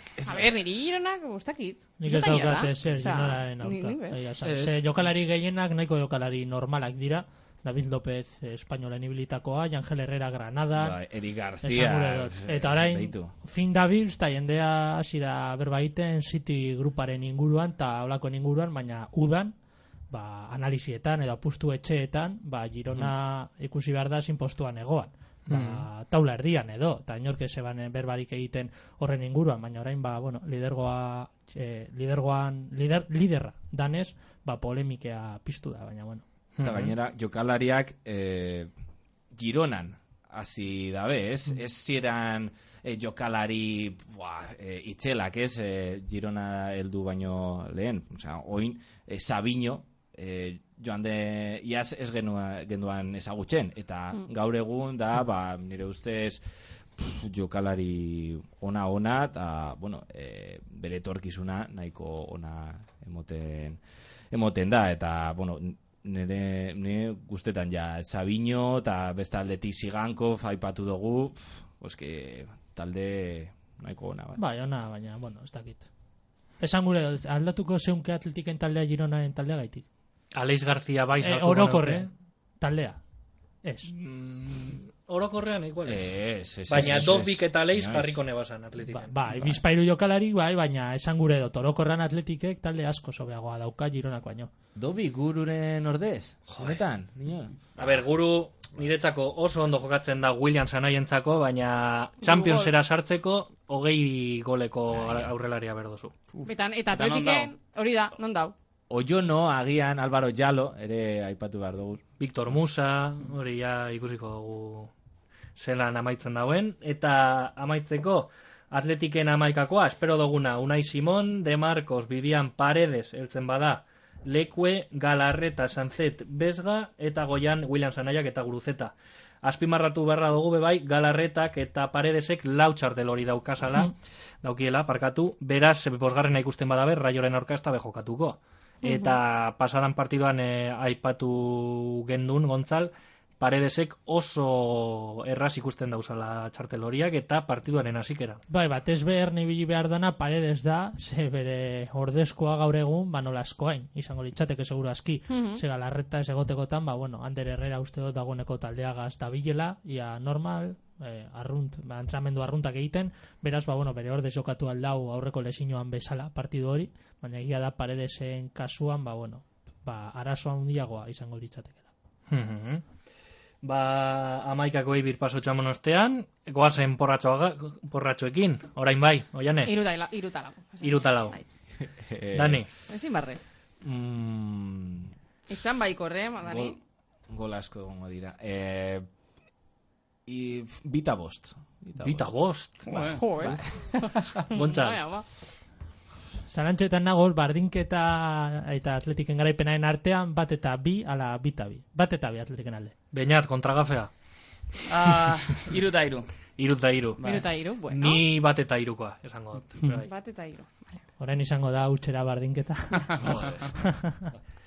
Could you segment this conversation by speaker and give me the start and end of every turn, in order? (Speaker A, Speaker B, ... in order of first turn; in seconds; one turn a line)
Speaker A: 0.2-4.2
Speaker B: 2.0-11.0
Speaker C: 4.4-4.8
Speaker C: 10.7-13.3
Speaker B: 11.6-19.5
Speaker B: 20.1-36.2
Speaker D: 25.5-25.9
Speaker D: 36.5-36.9
Speaker C: 36.6-38.7
Speaker C: 39.3-56.4
Speaker C: 56.9-63.8
Speaker C: 64.3-74.4
Speaker B: 74.4-75.8
Speaker B: 76.6-79.8
Speaker D: 80.3-82.1
Speaker B: 81.2-83.0
Speaker B: 83.6-83.9
Speaker D: 83.9-86.1
Speaker C: 85.8-88.2
Speaker D: 86.7-89.6
Speaker B: 88.9-94.5
Speaker C: 94.7-97.9
Speaker D: 96.5-96.8
Speaker D: 97.8-106.1
Speaker A: 102.2-102.7
Speaker A: 106.4-108.5
Speaker C: 108.9-112.0
Speaker D: 112.2-114.9
Speaker D: 115.5-148.4
Speaker A: 138.8-139.2
Speaker B: 148.5-171.8
Speaker A: 155.3-155.6
Speaker D: 172.3-172.8
Speaker D: 173.6-179.8
Speaker A: 179.7-181.4
Speaker D: 180.8-181.4
Speaker C: 181.8-182.7
Speaker D: 182.3-182.7
Speaker A: 182.9-183.4
Speaker C: 183.8-185.1
Speaker A: 185.5-186.8
Speaker C: 186.4-186.8
Speaker C: 187.3-189.1
Speaker C: 190.2-192.3
Speaker D: 192.0-193.2
Speaker E: 192.8-193.2
Speaker A: 193.1-195.2
Speaker D: 194.5-195.0
Speaker B: 196.5-202.9
Speaker D: 203.1-204.1
Speaker E: 204.9-206.3
Speaker D: 206.6-207.2
Speaker E: 207.2-207.5
Speaker A: 207.2-208.2
Speaker D: 207.9-210.1
Speaker A: 210.0-211.0
Speaker B: 211.2-214.3